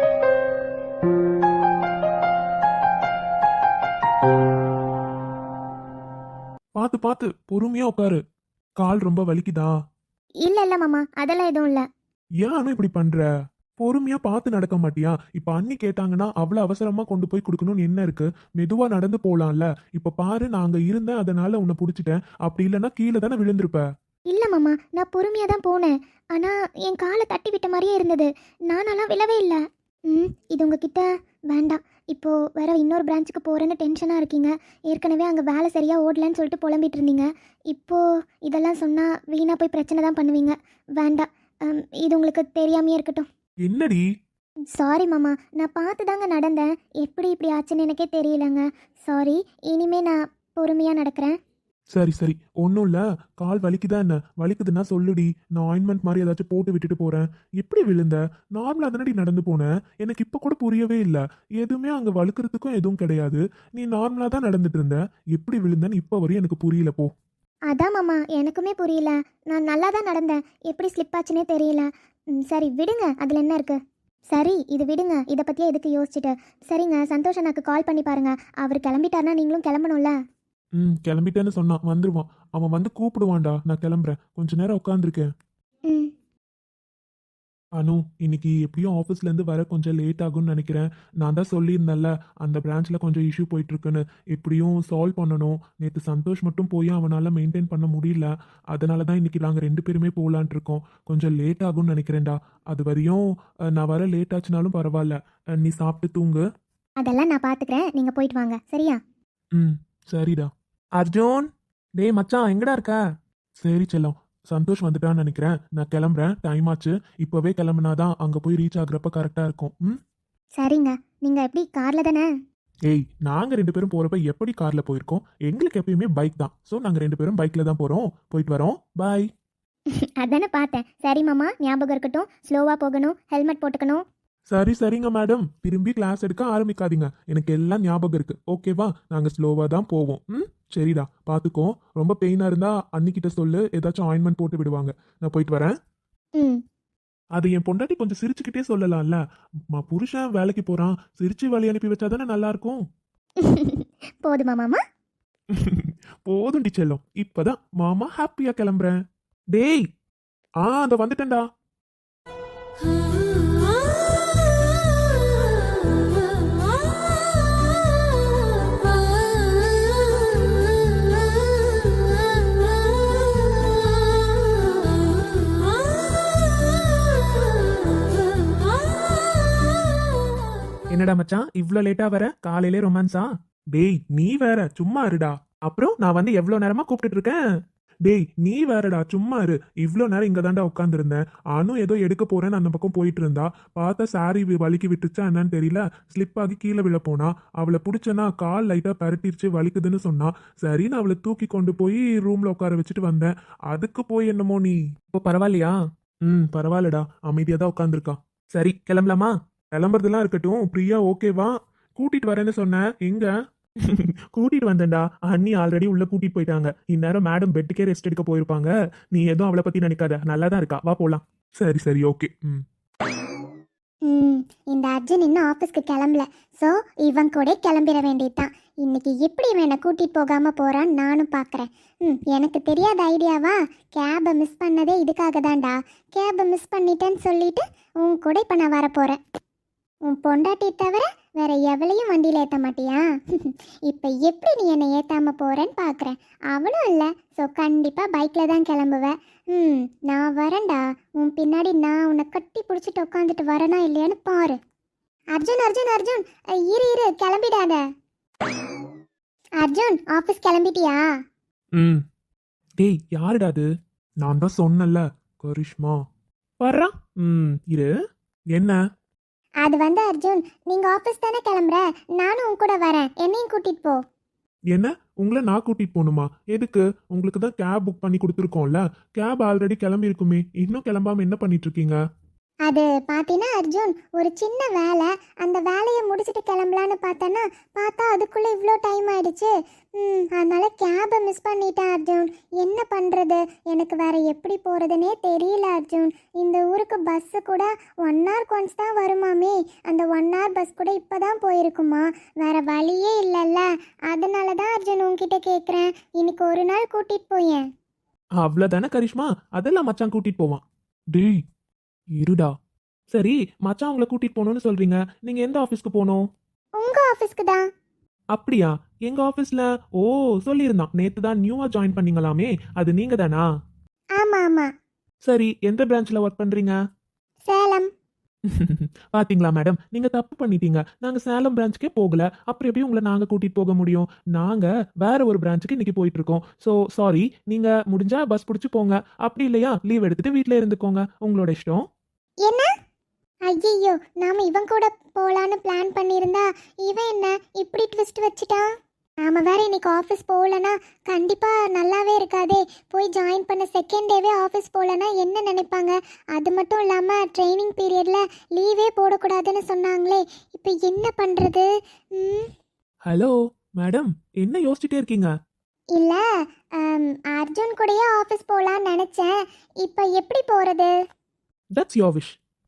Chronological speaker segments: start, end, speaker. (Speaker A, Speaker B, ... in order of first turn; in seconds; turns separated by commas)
Speaker A: 6.8-8.2, Speaker A: 8.8-9.7, Speaker B: 10.4-11.8, Speaker A: 12.4-13.3, Speaker A: 13.8-23.9, Speaker B: 24.3-43.3, Speaker A: 43.6-44.0, Speaker B: 44.7-51.4, Speaker A: 51.9-67.1, Speaker B: 67.7-71.9, Speaker B: 72.4-73.8, Speaker B: 74.3-80.2, Speaker A: 80.8-85.3, Speaker A: 87.8-106.4, Speaker B: 107.0-109.0, Speaker A: 109.5-111.5, Speaker A: 112.0-113.0, Speaker A: 113.6-120.0, Speaker B: 120.6-122.3, Speaker A: 122.9-129.3, Speaker B: 130.2-134.0, Speaker A: 134.5-145.7, Speaker A: 147.3-149.2, Speaker A: 149.7-152.8, Speaker B: 153.4-154.8, Speaker A: 155.5-159.0, Speaker A: 159.5-159.9, Speaker A: 160.6-161.4, Speaker A: 180.9-187.4, Speaker A: 188.1-205.8, Speaker A: 206.3-222.6, Speaker C: 224.1-239.2, Speaker C: 240.1-254.6, Speaker C: 255.3-257.8, Speaker C: 259.6-261.0, Speaker A: 261.8-262.0, Speaker A: 262.8-263.7, Speaker A: 264.2-266.0, Speaker A: 266.6-267.9, Speaker C: 269.6-274.0, Speaker A: 274.7-282.0, Speaker C: 282.7-307.6, Speaker A: 308.4-310.6, Speaker A: 311.1-311.4, Speaker A: 312.2-312.5, Speaker A: 313.1-316.2, Speaker C: 316.8-317.6, Speaker A: 318.3-323.5, Speaker C: 324.2-324.7, Speaker A: 325.3-326.8, Speaker C: 327.4-327.9, Speaker A: 328.5-341.8, Speaker C: 343.5-348.7, Speaker C: 349.2-362.5, Speaker A: 363.1-365.3, Speaker C: 365.9-366.2, Speaker C: 366.8-370.9, Speaker A: 371.8-372.4